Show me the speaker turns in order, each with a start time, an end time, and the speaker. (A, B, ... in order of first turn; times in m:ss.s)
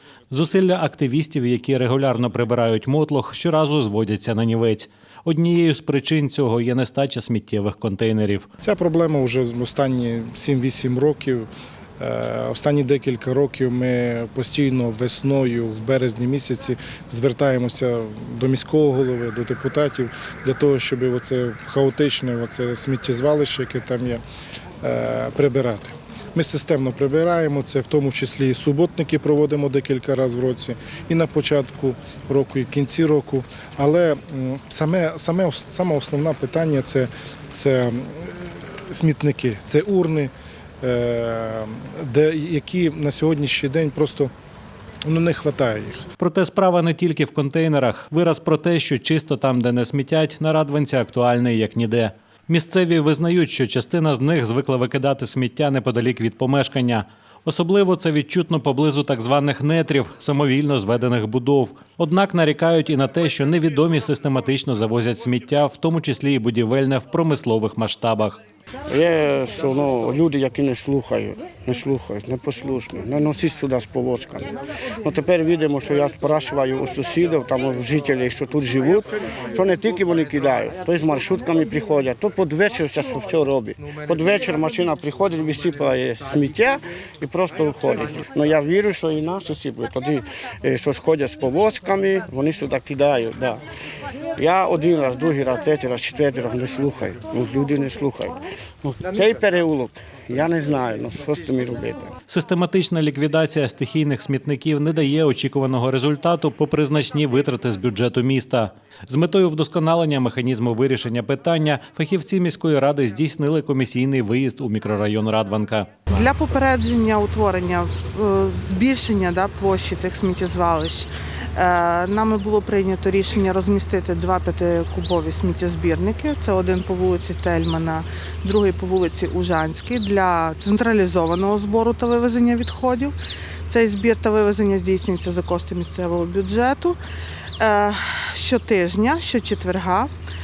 0:00.3-0:08.5 A
0:08.6-0:24.2 B
0:24.8-0:44.3 B
0:45.1-0:46.0 B
0:46.2-1:08.4 A
1:08.9-1:33.6 C
1:34.4-1:42.1 C
1:42.3-1:55.9 A
1:56.1-2:13.2 D
2:13.7-2:17.0 D
2:17.6-2:20.1 D